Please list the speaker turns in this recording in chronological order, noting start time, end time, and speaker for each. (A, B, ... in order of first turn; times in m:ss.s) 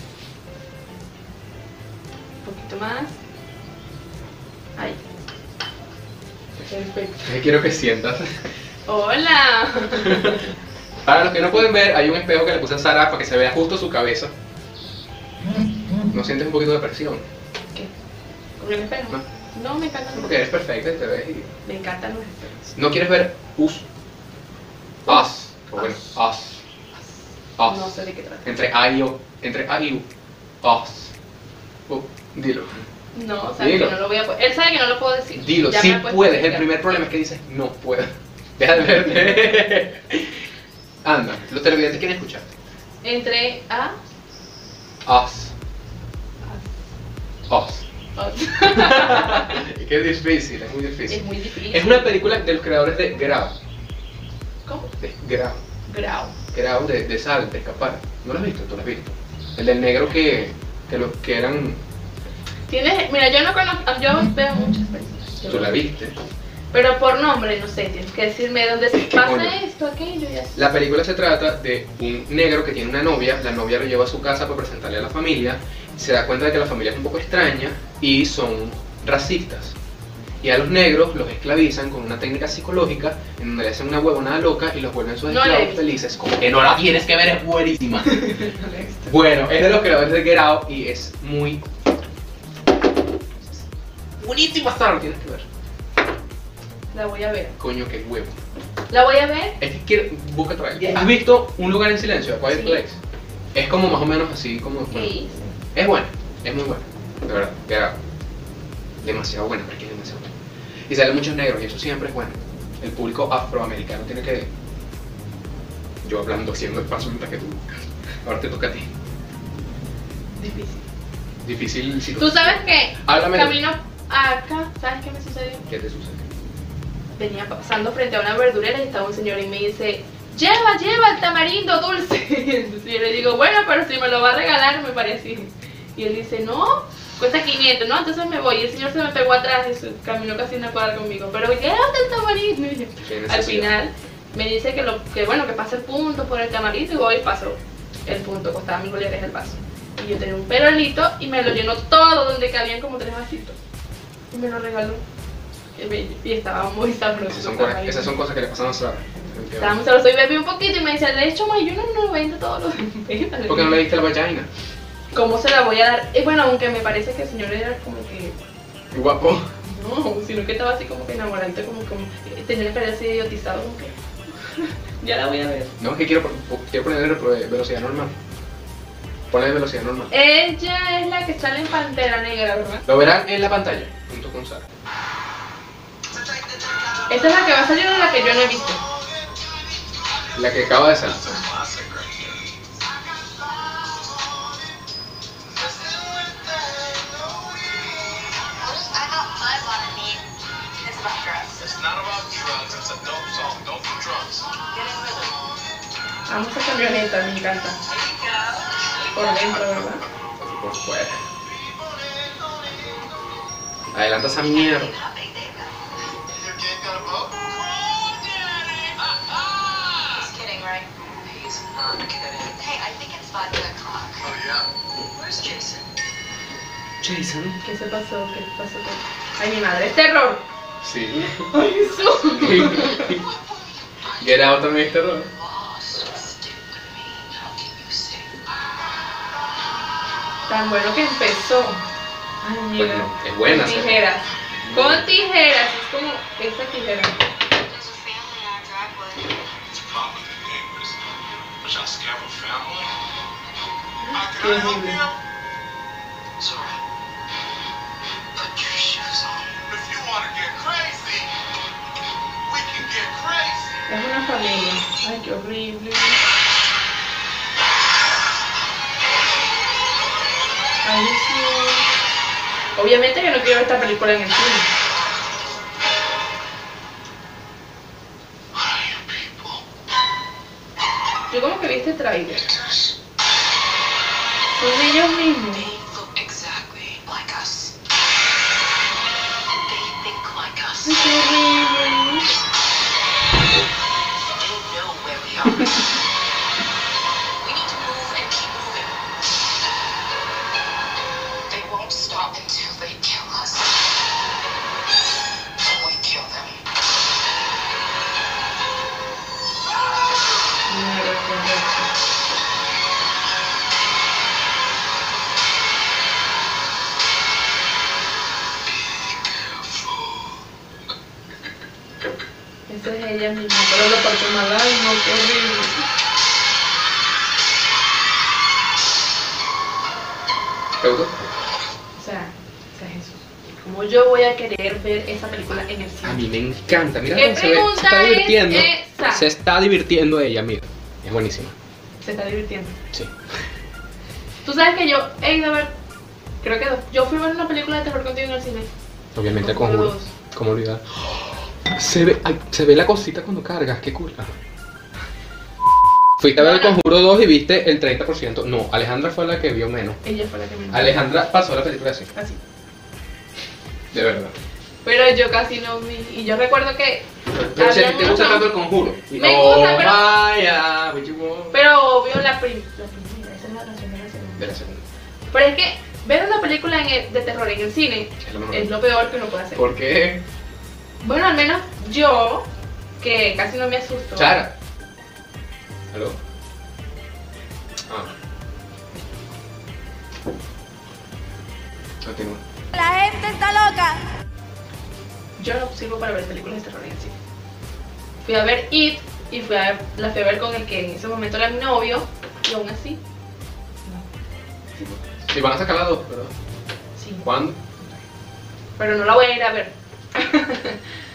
0:02.4-0:03.2 A
0:04.8-0:05.0 A
0:06.6-0:07.4 A
0:07.2-0:08.4 B
0:08.9-0:10.4 A
0:10.0-0:10.4 B
0:11.0-0:14.3 B
0:16.1-0:17.2 B
0:18.6-0:20.4 A
0:20.1-0:21.5 B
0:21.6-0:22.7 A
0:22.8-0:23.8 B
0:25.0-0:26.6 B
0:25.1-0:26.2 A
0:27.6-0:30.1 B
0:27.6-0:28.5 A
0:30.6-0:31.1 B
0:31.9-0:32.8 B
0:33.1-0:37.0 A
0:33.6-0:34.0 B
0:35.4-0:40.4 B
0:41.0-0:42.5 B
0:43.0-0:44.0 A
0:45.0-0:45.5 B
0:47.5-0:47.9 B
0:48.2-0:49.6 A
0:48.7-0:53.6 B
0:51.1-0:52.1 A
0:54.6-0:54.9 A
0:55.0-0:55.6 B
0:55.9-0:56.4 A
0:56.5-1:01.8 B
1:02.7-1:05.8 A
1:05.4-1:06.2 B
1:06.7-1:10.7 A
1:09.1-1:09.6 B
1:10.6-1:19.8 B
1:20.4-1:28.2 B
1:25.3-1:25.9 A
1:28.0-1:29.1 A
1:29.1-1:31.6 B
1:34.2-1:35.4 B
1:36.9-1:37.6 A
1:37.6-1:38.4 B
1:38.9-1:39.6 A
1:39.6-1:43.0 B
1:42.5-1:42.8 A
1:43.5-1:45.1 B
1:44.9-1:45.6 A
1:45.7-1:48.0 B
1:49.0-1:50.3 B
1:50.9-1:54.5 B
1:56.0-1:58.9 B
2:00.4-2:00.9 A
2:01.4-2:03.6 B
2:02.2-2:05.6 A
2:05.7-2:06.2 B
2:07.2-2:33.6 A
2:23.0-2:23.7 B
2:34.3-2:35.0 A
2:35.8-2:38.2 A
2:37.3-2:39.8 B
2:39.6-2:43.8 A
2:43.5-2:44.5 B
2:45.1-2:48.4 A
2:48.9-2:49.5 B
2:49.6-2:55.7 A
2:55.8-2:58.2 B
2:59.3-3:00.1 B
3:00.1-3:02.8 A
3:02.9-3:04.7 B
3:06.2-3:07.1 C
3:07.1-3:08.8 A
3:08.9-3:09.4 D
3:10.3-3:11.4 B
3:11.0-3:12.5 D
3:13.0-3:14.1 C
3:15.6-3:17.9 D
3:18.0-3:20.2 C
3:20.8-3:21.7 C
3:21.6-3:24.5 D
3:24.6-3:25.5 C
3:26.3-3:27.8 A
3:27.9-3:29.6 C
3:29.1-3:30.0 A
3:29.4-3:29.9 D
3:30.4-3:31.2 B
3:31.5-3:33.1 D
3:33.9-3:35.0 B
3:34.4-3:36.2 C
3:36.3-3:40.3 D
3:40.0-3:44.3 C
3:44.2-3:44.7 D
3:45.1-3:45.9 C
3:47.0-3:47.6 B
3:47.6-3:50.4 A
3:50.8-3:51.5 B
3:51.5-3:53.2 A
3:52.4-3:53.2 B
3:52.7-3:58.3 C
3:54.2-3:55.3 B
4:00.5-4:01.8 A
4:02.4-4:07.2 A
4:02.8-4:04.0 B
4:04.5-4:05.1 B
4:07.4-4:09.4 C
4:09.7-4:12.9 D
4:14.0-4:15.0 A
4:14.1-4:15.2 D
4:16.4-4:16.8 C
4:18.4-4:19.5 C
4:19.7-4:21.3 D
4:22.4-4:23.8 D
4:23.9-4:26.2 A
4:30.8-4:31.9 A
4:32.8-4:34.7 A
4:38.6-4:39.4 D
4:41.3-4:42.5 A
4:42.5-4:42.9 C
4:44.6-4:45.7 A
4:45.5-4:47.8 C
4:49.6-4:51.2 C
4:50.8-4:52.3 A
4:54.2-4:55.9 C
4:57.4-4:59.0 C
5:01.5-5:03.9 C
5:05.6-5:06.6 C
5:10.7-5:11.9 A
5:22.7-5:25.8 A
5:30.8-5:31.2 B
5:32.0-5:36.2 A
5:36.0-5:41.6 B
5:37.1-5:39.3 A
5:42.0-5:42.8 A
5:44.4-5:45.7 A
5:46.4-5:48.7 A
5:49.2-5:54.3 B
5:49.3-5:50.1 A
5:56.2-6:00.0 B
5:56.4-5:56.8 A
6:00.0-6:01.0 A
6:00.7-6:02.1 B
6:02.2-6:02.4 A
6:03.9-6:04.3 B
6:04.8-6:08.5 A
6:07.3-6:11.6 B
6:09.2-6:10.0 A
6:11.5-6:14.5 A
6:14.4-6:14.8 B
6:15.3-6:19.6 A
6:18.2-6:18.8 B
6:19.6-6:20.2 B
6:21.0-6:22.5 A
6:23.0-6:24.4 A
6:24.2-6:24.5 B
6:25.9-6:26.2 B
6:27.9-6:28.1 B
6:32.0-6:32.4 B
6:32.9-6:33.6 C
6:35.4-6:37.1 A
6:38.2-6:43.0 A
6:44.8-6:45.0 A
6:45.3-6:46.3 B
6:47.0-6:47.3 A
6:47.2-6:47.6 B
6:48.8-6:50.8 A